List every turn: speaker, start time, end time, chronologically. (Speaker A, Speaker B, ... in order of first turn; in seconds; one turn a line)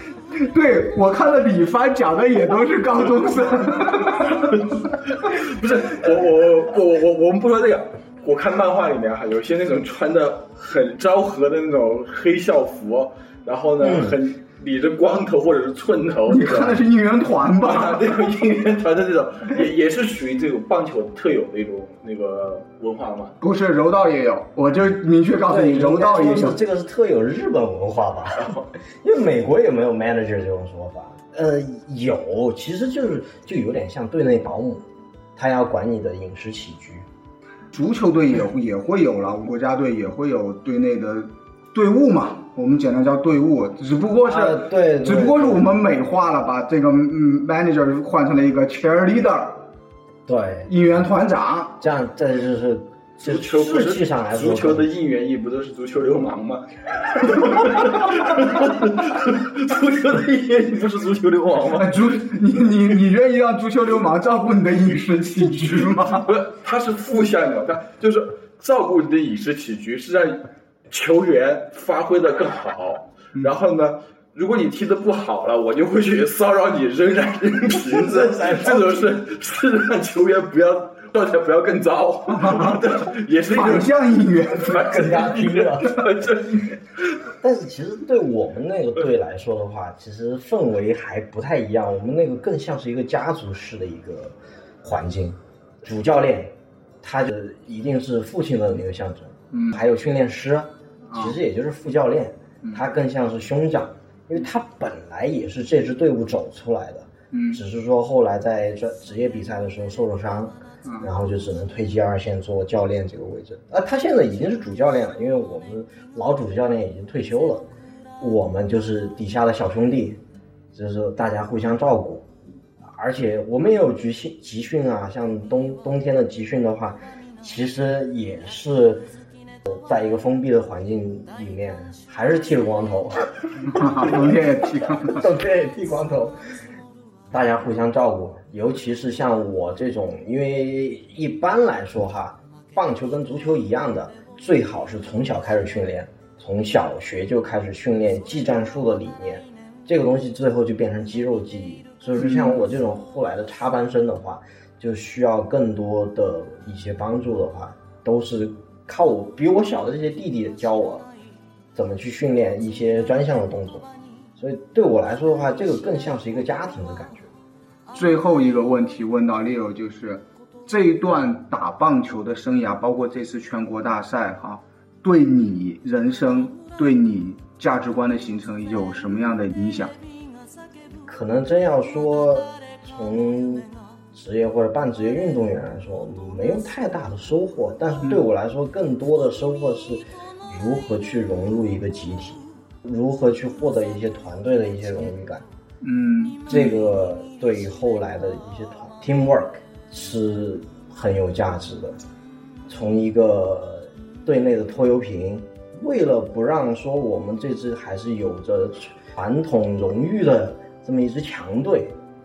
Speaker A: 0.3-4.7
Speaker B: 5.1-16.8
Speaker C: 13.8-14.2
Speaker A: 16.3-18.0
Speaker B: 17.6-23.4
Speaker A: 23.4-26.6
Speaker C: 25.5-37.1
Speaker A: 37.7-49.6
Speaker C: 44.2-45.7
Speaker C: 50.3-50.7
Speaker A: 50.7-51.8
Speaker C: 51.8-54.9
Speaker B: 53.2-62.1
Speaker A: 61.7-66.4
Speaker B: 66.2-86.8
Speaker C: 77.7-79.1
Speaker A: 82.3-82.8
Speaker A: 83.5-84.8
Speaker C: 84.7-86.2
Speaker C: 87.4-117.7
Speaker A: 99.5-99.8
Speaker A: 101.1-101.4
Speaker A: 107.3-107.6
Speaker C: 118.2-120.2
Speaker C: 120.7-122.3
Speaker C: 122.8-129.1
Speaker C: 129.7-134.3
Speaker A: 133.6-135.2
Speaker C: 135.1-136.4
Speaker C: 137.3-161.1
Speaker A: 152.2-152.6
Speaker C: 161.7-167.3
Speaker A: 167.9-179.9
Speaker C: 181.1-195.4
Speaker A: 195.8-196.7
Speaker C: 196.5-202.0
Speaker C: 202.7-212.0